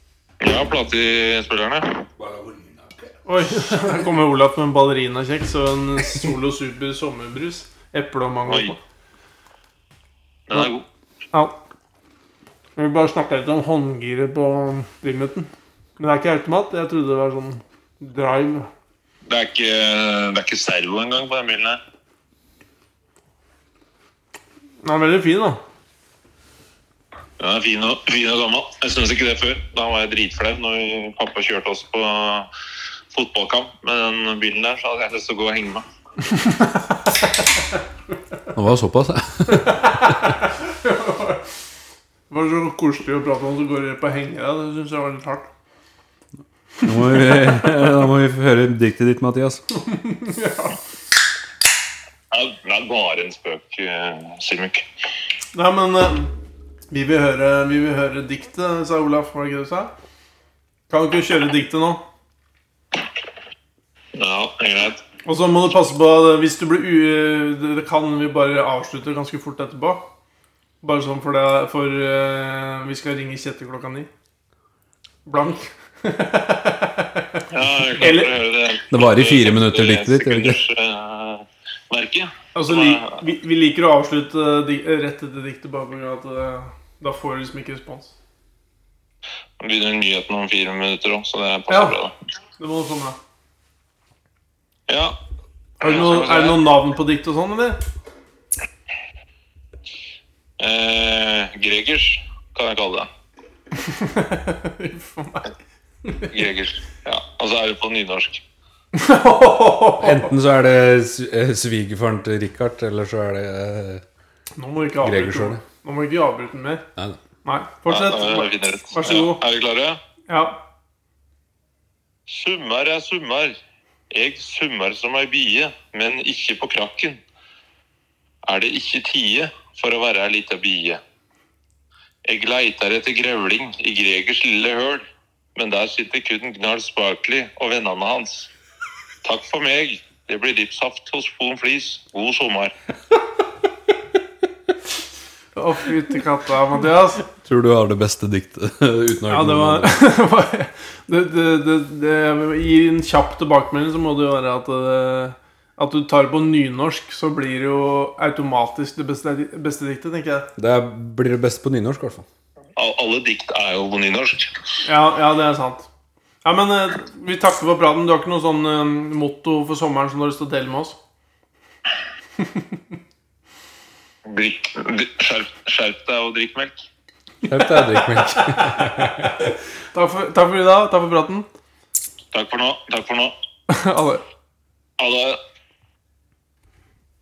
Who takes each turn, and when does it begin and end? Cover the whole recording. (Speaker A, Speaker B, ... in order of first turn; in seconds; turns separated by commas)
Speaker A: 0.4-2.1, Speaker B: 2.2-3.0, Speaker C: 3.2-8.8, Speaker A: 8.5-8.7, Speaker A: 10.5-10.8, Speaker C: 11.3-11.6, Speaker C: 12.8-18.7, Speaker A: 19.2-21.8, Speaker C: 24.8-25.6, Speaker A: 27.4-32.5, Speaker A: 33.1-35.9, Speaker C: 36.3-36.8, Speaker B: 38.5-40.1, Speaker C: 39.5-41.4, Speaker C: 42.3-45.5, Speaker C: 46.8-47.5, Speaker B: 46.8-49.6, Speaker C: 49.7-50.8, Speaker A: 52.3-54.8, Speaker C: 55.5-56.3, Speaker C: 56.9-59.9, Speaker C: 60.9-62.0, Speaker A: 64.1-65.0, Speaker C: 65.2-70.1, Speaker C: 70.8-74.1, Speaker C: 75.2-78.3, Speaker A: 77.5-83.2, Speaker B: 78.9-80.6, Speaker C: 82.5-88.1, Speaker A: 89.6-92.1, Speaker C: 91.7-92.0, Speaker C: 92.6-93.2, Speaker A: 94.9-95.2, Speaker A: 95.8-96.6, Speaker C: 95.8-97.8, Speaker A: 100.6-103.1, Speaker C: 103.8-105.5, Speaker A: 106.3-108.4, Speaker C: 108.9-110.3, Speaker B: 110.0-114.0, Speaker C: 114.6-116.9, Speaker B: 115.0-115.6, Speaker C: 117.4-119.4, Speaker A: 117.9-120.0, Speaker C: 120.3-120.6, Speaker A: 122.3-123.6, Speaker A: 124.1-127.2, Speaker A: 128.4-131.0, Speaker A: 132.2-138.5, Speaker A: 139.2-142.7, Speaker C: 145.6-147.2, Speaker B: 147.4-150.0, Speaker C: 149.3-160.5, Speaker B: 160.6-162.2, Speaker A: 162.8-164.7, Speaker C: 164.8-165.9, Speaker C: 166.4-171.0, Speaker C: 172.4-172.7, Speaker A: 174.2-176.8, Speaker B: 177.4-179.3, Speaker C: 177.5-181.5, Speaker A: 182.3-183.3, Speaker C: 183.7-184.2, Speaker A: 185.0-185.4